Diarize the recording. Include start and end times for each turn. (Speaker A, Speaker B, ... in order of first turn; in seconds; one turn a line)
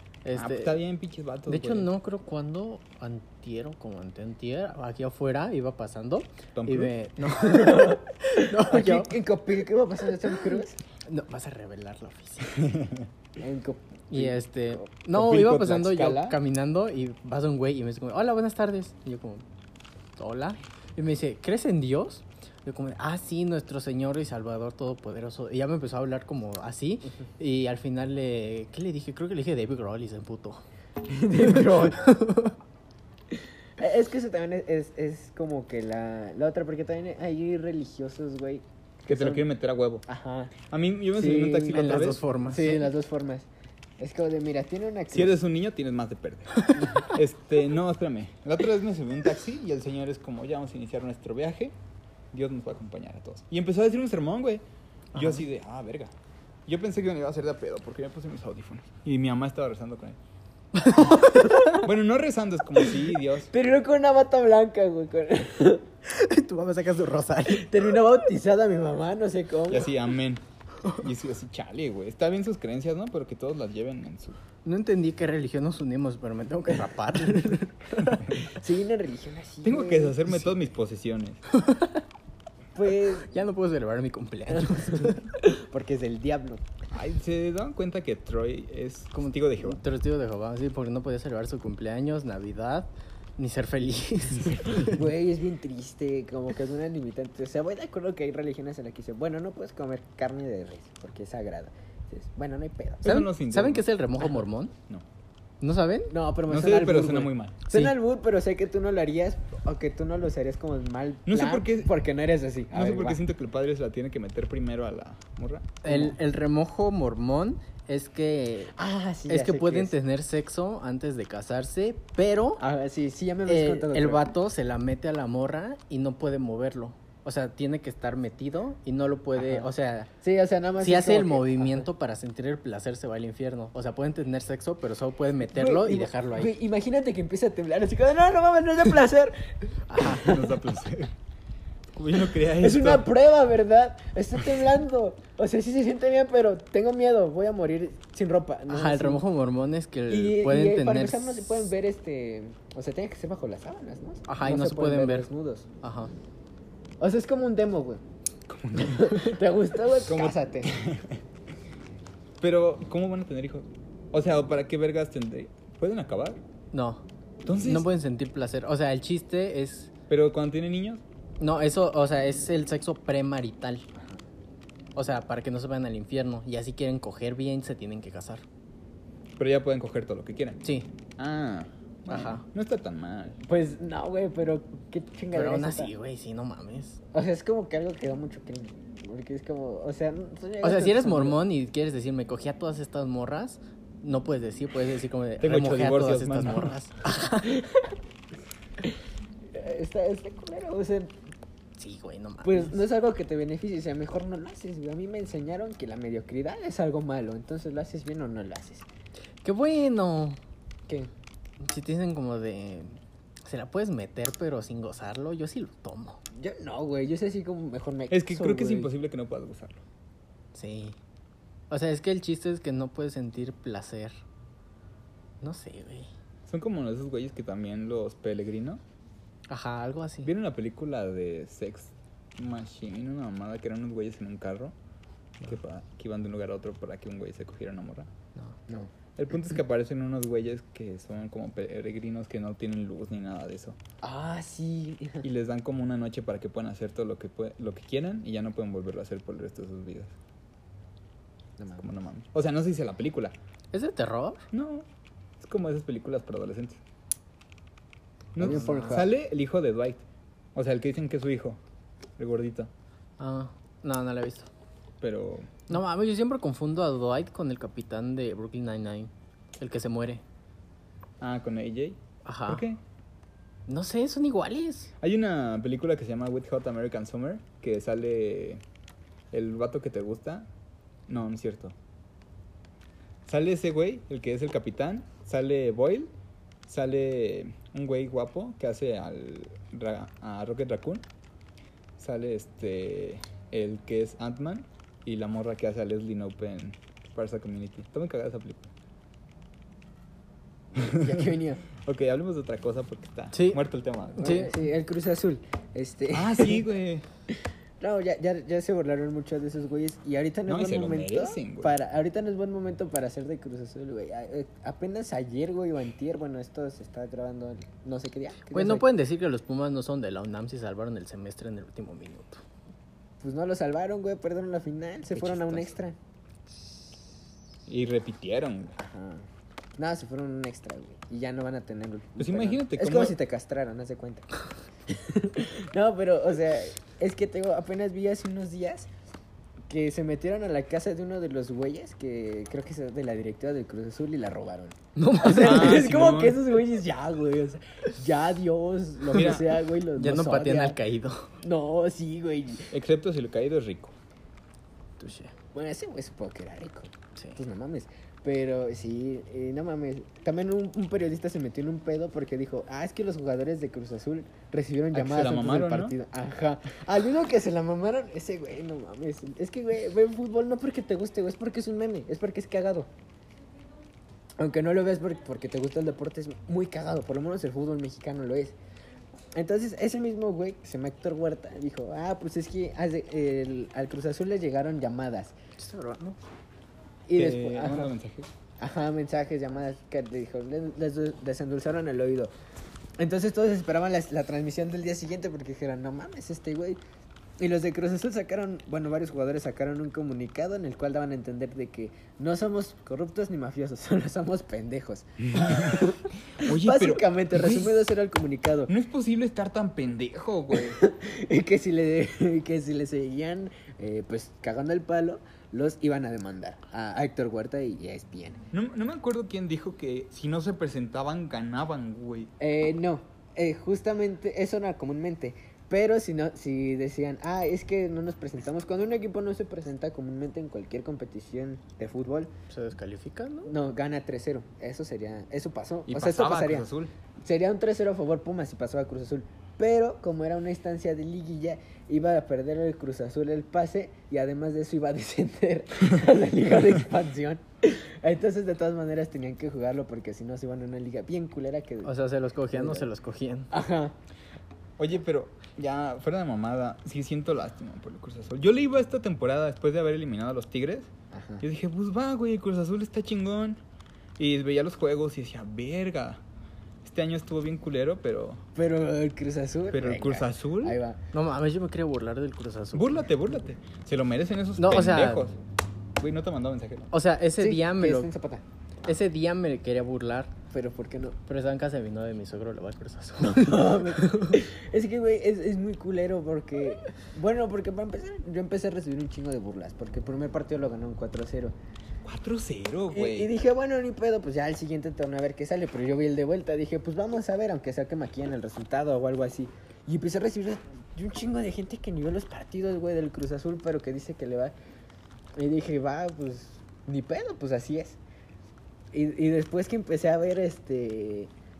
Speaker A: 0.2-0.8
Speaker B: 0.3-1.9
Speaker A: 1.5-9.1
Speaker B: 6.5-6.9
Speaker C: 7.3-10.8
Speaker A: 11.1-12.7
Speaker B: 12.5-13.1
Speaker C: 13.4-14.8
Speaker A: 14.1-19.4
Speaker B: 15.1-16.3
Speaker A: 20.2-30.6
Speaker C: 31.1-32.1
Speaker A: 31.4-32.5
Speaker C: 33.8-39.4
Speaker B: 39.1-40.0
Speaker C: 40.1-40.5
Speaker B: 40.7-42.2
Speaker C: 41.1-43.5
Speaker A: 41.7-42.9
Speaker C: 44.0-45.4
Speaker B: 45.1-51.7
Speaker A: 46.6-47.1
Speaker B: 52.3-54.6
Speaker B: 55.1-56.1
Speaker B: 56.6-60.2
Speaker A: 60.8-61.8
Speaker C: 61.2-61.8
Speaker B: 61.7-63.5
Speaker C: 63.5-65.8
Speaker A: 66.0-67.7
Speaker C: 67.5-69.9
Speaker B: 69.7-74.4
Speaker A: 74.6-78.4
Speaker B: 78.0-78.4
Speaker C: 78.5-80.4
Speaker B: 79.6-81.4
Speaker A: 81.5-82.0
Speaker C: 82.7-83.3
Speaker A: 83.2-85.3
Speaker C: 84.6-86.6
Speaker B: 86.9-89.8
Speaker A: 89.1-95.0
Speaker C: 94.7-103.1
Speaker B: 103.0-103.8
Speaker A: 103.0-104.7
Speaker A: 105.6-106.1
Speaker C: 106.1-113.2
Speaker B: 106.5-107.6
Speaker A: 107.7-107.9
Speaker B: 111.2-111.9
Speaker B: 112.7-115.8
Speaker A: 115.8-118.7
Speaker C: 115.9-116.1
Speaker C: 118.8-119.9
Speaker A: 119.3-122.6
Speaker C: 122.6-124.2
Speaker A: 123.5-130.1
Speaker C: 129.3-129.7
Speaker C: 130.2-131.8
Speaker A: 130.8-136.5
Speaker C: 135.5-139.4
Speaker A: 139.9-140.3
Speaker C: 139.9-140.6
Speaker B: 140.1-141.2
Speaker B: 141.9-143.1
Speaker C: 142.4-149.2
Speaker A: 148.7-151.7
Speaker C: 150.1-155.7
Speaker A: 154.3-155.3
Speaker A: 155.8-156.1
Speaker C: 157.0-158.0
Speaker B: 158.5-159.2
Speaker C: 158.7-160.7
Speaker B: 160.0-161.2
Speaker B: 162.4-166.4
Speaker A: 166.7-169.9
Speaker B: 167.4-167.9
Speaker B: 170.1-171.0
Speaker A: 171.4-173.8
Speaker A: 174.9-178.4
Speaker B: 179.4-180.6
Speaker B: 181.2-183.4
Speaker A: 182.1-182.4
Speaker C: 183.4-185.9
Speaker A: 185.3-187.0
Speaker C: 187.1-191.4
Speaker A: 190.6-197.6
Speaker B: 195.4-196.8
Speaker C: 197.4-197.9
Speaker C: 199.5-201.1
Speaker A: 201.8-202.8
Speaker C: 202.4-208.8
Speaker A: 209.4-210.4
Speaker A: 211.6-216.2
Speaker C: 216.3-218.9
Speaker B: 218.1-219.8
Speaker A: 220.5-221.0
Speaker A: 221.7-224.2
Speaker A: 225.4-226.1
Speaker B: 226.5-228.8
Speaker A: 229.5-230.3
Speaker B: 230.2-234.7
Speaker B: 235.4-238.1
Speaker B: 239.2-243.8
Speaker C: 244.0-245.2
Speaker B: 245.2-250.1
Speaker C: 251.6-251.8
Speaker B: 251.8-253.3
Speaker A: 253.7-254.4
Speaker B: 254.5-254.8
Speaker B: 255.4-256.8
Speaker B: 258.3-260.0
Speaker C: 258.4-259.1
Speaker A: 258.4-259.0
Speaker B: 260.5-261.6
Speaker B: 262.2-262.7
Speaker A: 263.2-264.5
Speaker B: 265.0-265.6
Speaker A: 265.7-270.2
Speaker B: 271.2-272.8
Speaker A: 272.2-272.6
Speaker A: 273.7-274.9
Speaker B: 275.0-278.6
Speaker B: 279.3-280.5
Speaker B: 281.1-281.8
Speaker B: 283.2-286.1
Speaker B: 286.6-291.1
Speaker B: 292.0-298.7
Speaker B: 300.8-301.2
Speaker C: 300.8-301.6
Speaker B: 301.8-304.3
Speaker A: 303.3-303.6
Speaker A: 304.2-304.6
Speaker C: 304.2-306.6
Speaker B: 306.1-307.1
Speaker C: 307.8-318.8
Speaker B: 310.5-311.8
Speaker A: 318.5-322.4
Speaker C: 323.2-325.9
Speaker B: 327.7-328.8
Speaker C: 328.8-334.3
Speaker B: 332.2-333.2
Speaker C: 334.9-338.9
Speaker C: 339.7-350.8
Speaker A: 344.9-345.9
Speaker B: 345.4-346.4
Speaker A: 349.1-349.4
Speaker B: 349.1-349.6
Speaker A: 349.9-351.3
Speaker C: 351.4-352.7
Speaker B: 352.7-353.9
Speaker A: 355.0-355.3
Speaker C: 355.5-372.9
Speaker B: 364.9-365.9
Speaker C: 374.4-378.5
Speaker C: 379.3-385.3
Speaker A: 385.6-386.2
Speaker C: 387.1-387.9
Speaker B: 387.1-388.3
Speaker C: 388.6-392.3
Speaker C: 393.0-396.8
Speaker C: 397.4-408.7
Speaker B: 405.3-407.8
Speaker B: 408.7-410.8
Speaker C: 410.5-418.4
Speaker B: 418.5-422.3
Speaker C: 422.4-432.3
Speaker A: 432.5-433.5
Speaker C: 433.4-436.7
Speaker B: 435.9-436.9
Speaker C: 437.2-451.9
Speaker A: 451.8-453.5
Speaker C: 452.5-452.9
Speaker C: 453.5-453.9
Speaker B: 454.8-460.9
Speaker C: 461.1-461.4
Speaker B: 461.4-463.6
Speaker B: 464.2-466.2
Speaker B: 466.8-468.4
Speaker C: 468.5-471.0
Speaker B: 469.7-470.8
Speaker A: 471.1-473.1
Speaker B: 472.7-475.3
Speaker A: 474.6-475.3
Speaker B: 476.0-476.9
Speaker A: 476.9-478.1
Speaker C: 477.4-478.4
Speaker A: 478.8-480.3
Speaker C: 480.5-481.2
Speaker A: 481.2-484.4
Speaker C: 483.2-491.5
Speaker B: 492.0-493.3
Speaker C: 492.9-504.5
Speaker C: 505.4-508.0
Speaker C: 508.9-511.3